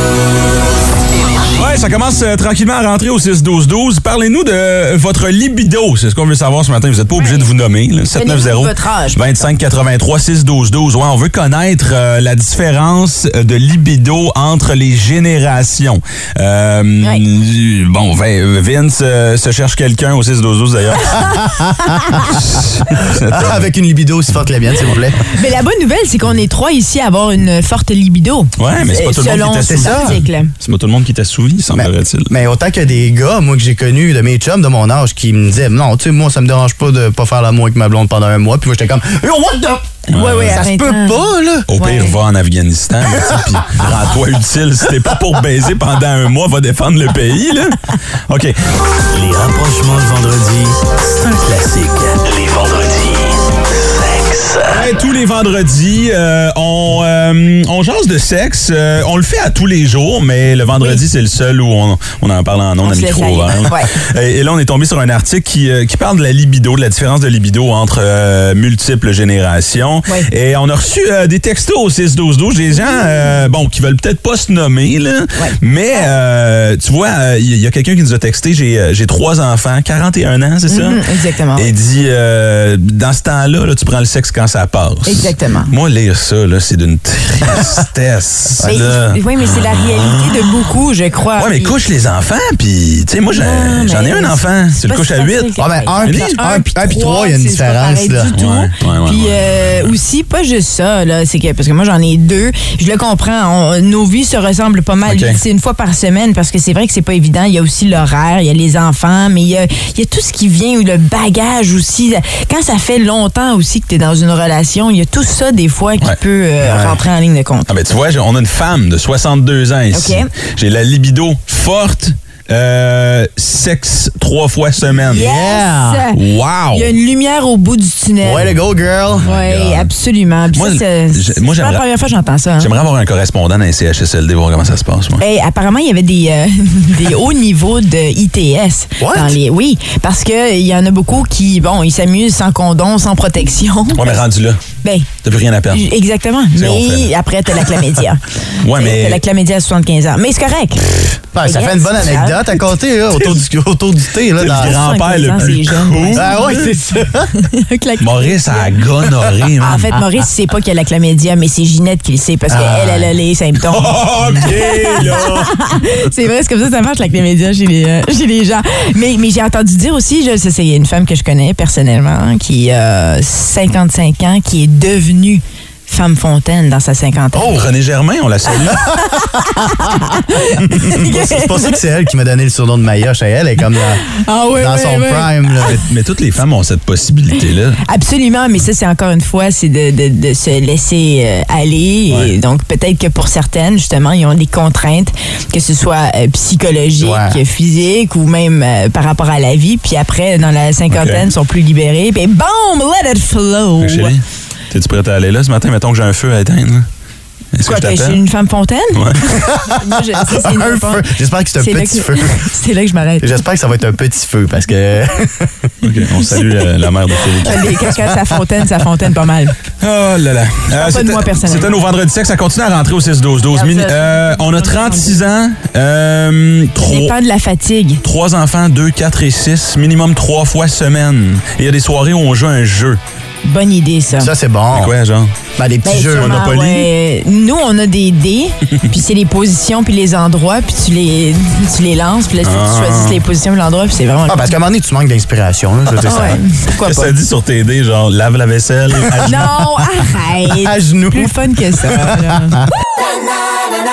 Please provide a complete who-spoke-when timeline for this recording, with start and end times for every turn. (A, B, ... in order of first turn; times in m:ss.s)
0:01.2-0:01.5 A
0:01.6-0:21.4 B
0:07.1-0:07.5 A
0:08.1-0:09.4 A
0:21.3-0:22.0 C
0:21.9-0:22.3 A
0:22.2-0:23.7 B
0:23.1-0:25.2 C
0:25.3-0:30.5 A
0:28.6-0:32.3 B
0:29.7-0:30.2 C
0:31.7-0:41.7 C
0:40.1-0:42.1 A
0:40.1-0:40.7 B
0:41.7-0:48.6 B
0:49.2-0:50.7 C
0:49.3-0:50.1 D
0:51.2-0:54.9 D
0:54.7-1:21.0 B
1:02.8-1:04.0 A
1:15.4-1:16.1 A
1:20.7-1:21.7 A
1:21.5-1:30.5 B
1:25.0-1:25.7 A
1:28.6-1:28.9 C
1:28.6-1:31.7 A
1:31.4-1:36.4 B
1:33.3-1:57.7 A
1:35.6-1:38.3 C
1:38.4-1:40.0 B
1:45.1-1:45.4 B
1:56.6-1:57.0 C
1:57.7-2:05.3 B
1:59.9-2:00.3 A
2:05.1-2:06.2 A
2:05.1-2:06.0 C
2:06.1-2:06.9 B
2:06.7-2:08.5 A
2:08.2-2:09.3 C
2:09.1-2:09.9 B
2:09.2-2:12.7 A
2:10.5-2:11.8 B
2:12.6-2:15.2 B
2:15.2-2:24.2 A
2:19.0-2:19.4 C
2:23.9-2:24.6 B
2:24.8-2:25.1 A
2:25.2-2:25.9 B
2:25.7-2:32.6 A
2:26.6-2:27.1 B
2:28.6-2:29.2 B
2:31.3-2:34.8 C
2:33.2-2:33.4 B
2:34.4-2:36.7 B
2:34.6-2:36.6 A
2:36.2-2:37.3 C
2:37.3-2:38.8 A
2:38.0-2:40.0 B
2:39.6-2:57.6 A
2:42.5-2:43.1 C
2:43.7-2:45.5 B
2:57.3-2:57.6 C
2:57.4-2:58.9 B
2:58.8-3:01.8 A
3:00.8-3:04.0 C
3:04.1-3:05.5 A
3:04.6-3:05.8 C
3:05.6-3:07.8 B
3:07.9-3:24.1 A
3:17.0-3:17.4 C
3:20.9-3:21.2 B
3:23.8-3:26.9 B
3:27.5-3:28.2 B
3:27.6-3:33.4 A
3:28.9-3:29.2 B
3:29.5-3:32.5 C
3:33.2-3:35.7 C
3:35.8-3:37.8 B
3:37.4-3:39.5 A
3:37.6-3:38.4 C
3:39.8-3:47.1 B
3:40.7-3:41.8 A
3:43.5-3:45.2 A
3:46.8-3:48.0 A
3:48.0-3:53.0 B
3:53.4-3:54.3 A
3:54.2-3:54.9 C
3:54.7-3:55.3 B
3:55.6-3:56.4 C
3:55.8-4:04.5 A
3:56.0-3:56.9 B
4:02.4-4:03.2 B
4:04.3-4:06.4 C
4:06.0-4:07.1 A
4:06.8-4:09.7 B
4:09.2-4:12.6 A
4:10.5-4:12.7 C